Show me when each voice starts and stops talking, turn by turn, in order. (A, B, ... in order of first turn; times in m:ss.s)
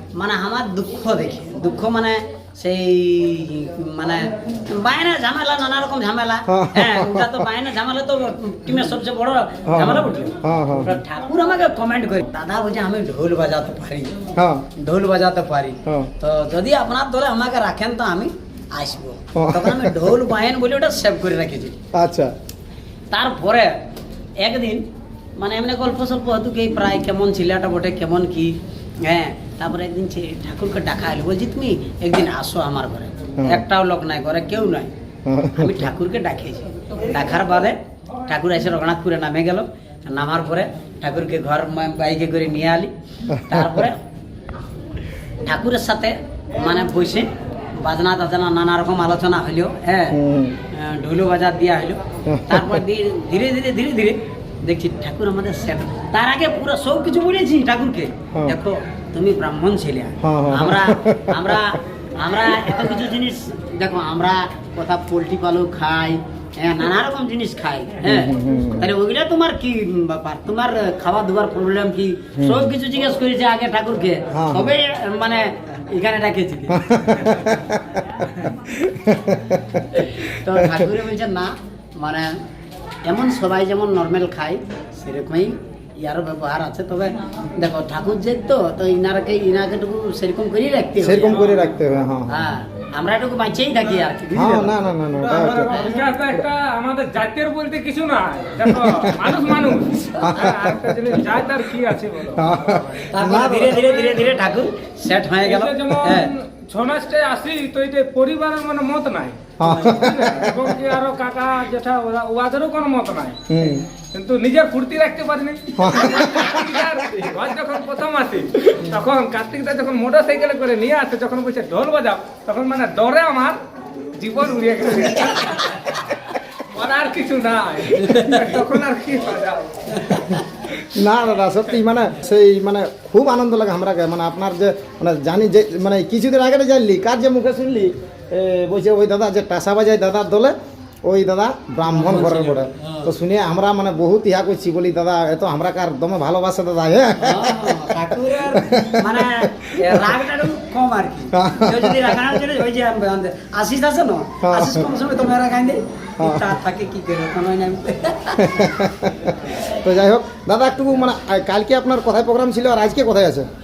0:00.1-0:14.2 A
0:06.5-0:07.5 B
0:09.6-0:10.9 B
0:14.4-0:14.6 B
0:14.8-0:21.8 A
0:19.4-0:20.2 B
0:21.9-0:22.3 B
0:23.1-0:23.7 A
0:24.4-0:24.8 A
0:25.4-0:34.9 A
0:33.4-0:33.6 B
0:35.2-0:35.9 B
0:35.6-0:42.9 A
0:43.3-0:43.9 B
0:43.5-0:44.0 A
0:45.4-1:16.9 A
0:50.1-0:50.6 B
0:52.3-0:52.8 B
0:58.3-0:58.6 B
1:00.2-1:01.7 B
1:08.0-1:08.9 B
1:12.4-1:12.7 B
1:14.3-1:14.8 B
1:16.7-1:20.0 B
1:19.9-1:22.3 A
1:20.5-1:20.9 B
1:23.0-1:31.5 A
1:31.0-1:32.5 B
1:32.3-1:34.7 A
1:34.3-1:36.1 B
1:35.2-1:43.2 C
1:38.7-1:39.5 B
1:40.2-1:41.1 B
1:42.3-1:43.8 B
1:43.1-1:46.3 A
1:43.7-1:44.3 C
1:45.4-1:53.4 C
1:49.6-1:50.8 B
1:49.6-1:50.1 A
1:53.5-1:53.9 B
1:54.1-2:03.6 C
1:55.8-1:56.7 B
2:04.1-2:10.3 C
2:07.9-2:08.5 A
2:09.9-2:10.4 A
2:10.9-2:30.1 B
2:21.9-2:23.1 A
2:27.2-2:38.8 A
2:31.3-2:32.5 B
2:34.4-2:34.9 B
2:36.2-2:36.6 B
2:38.4-2:43.5 B